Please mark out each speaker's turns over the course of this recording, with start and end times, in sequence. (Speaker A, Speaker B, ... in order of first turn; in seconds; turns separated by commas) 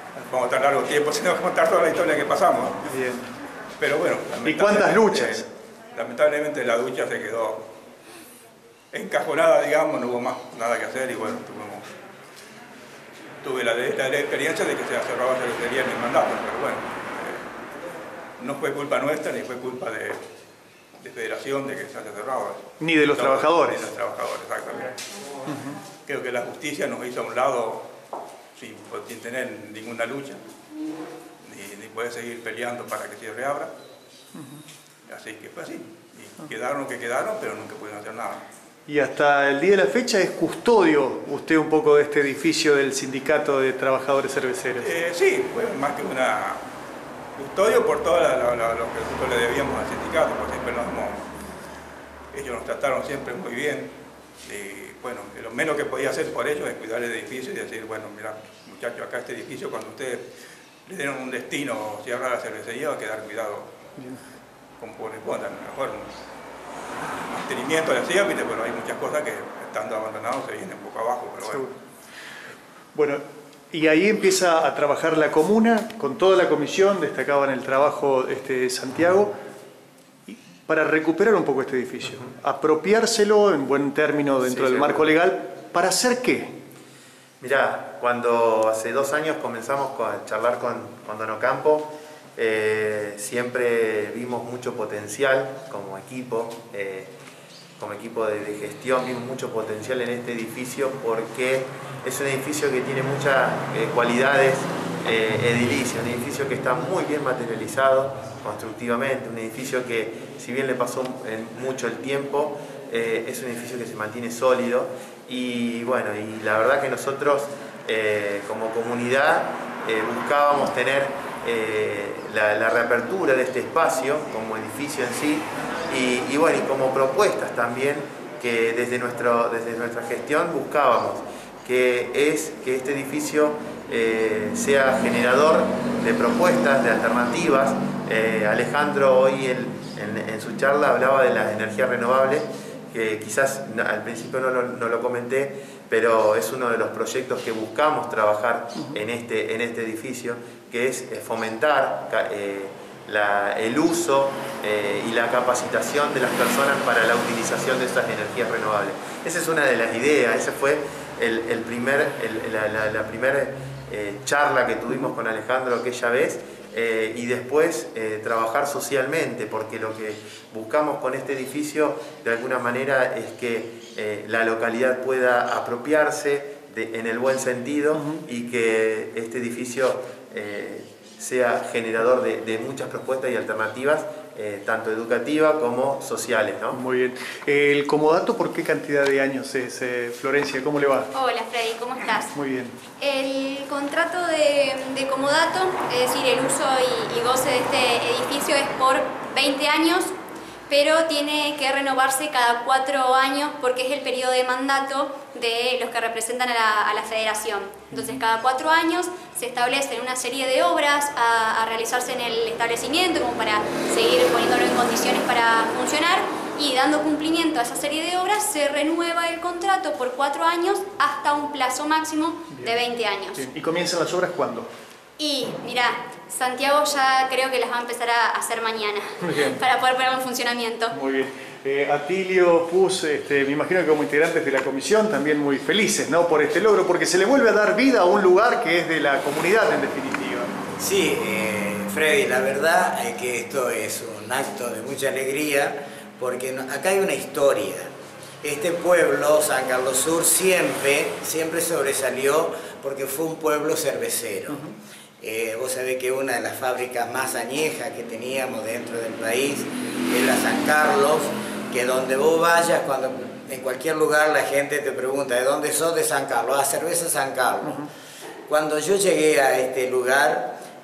Speaker A: 0.1-2.9, Speaker B: 2.9-3.2, Speaker A: 3.8-7.7, Speaker B: 4.5-5.5, Speaker A: 8.9-11.9, Speaker A: 13.4-17.4, Speaker A: 18.4-20.2, Speaker A: 21.0-24.9, Speaker B: 22.8-23.9, Speaker A: 26.1-27.9, Speaker A: 28.6-30.4, Speaker A: 31.4-33.7, Speaker B: 34.4-34.6, Speaker A: 35.1-38.4, Speaker B: 38.9-44.9, Speaker A: 44.8-46.6, Speaker A: 47.4-51.3, Speaker A: 52.3-60.3, Speaker A: 60.9-63.7, Speaker A: 64.8-66.1, Speaker A: 67.3-71.7, Speaker B: 73.0-79.3, Speaker B: 80.3-86.6, Speaker C: 87.4-97.1, Speaker C: 97.8-186.8, Speaker B: 186.7-191.1, Speaker D: 191.1-192.3, Speaker B: 192.3-192.8, Speaker D: 193.0-200.1, Speaker D: 200.7-223.4, Speaker B: 223.3-224.7, Speaker D: 225.2-230.9, Speaker B: 229.3-229.6, Speaker B: 230.9-240.5, Speaker E: 240.8-247.9, Speaker E: 248.4-267.9, Speaker E: 268.5-270.6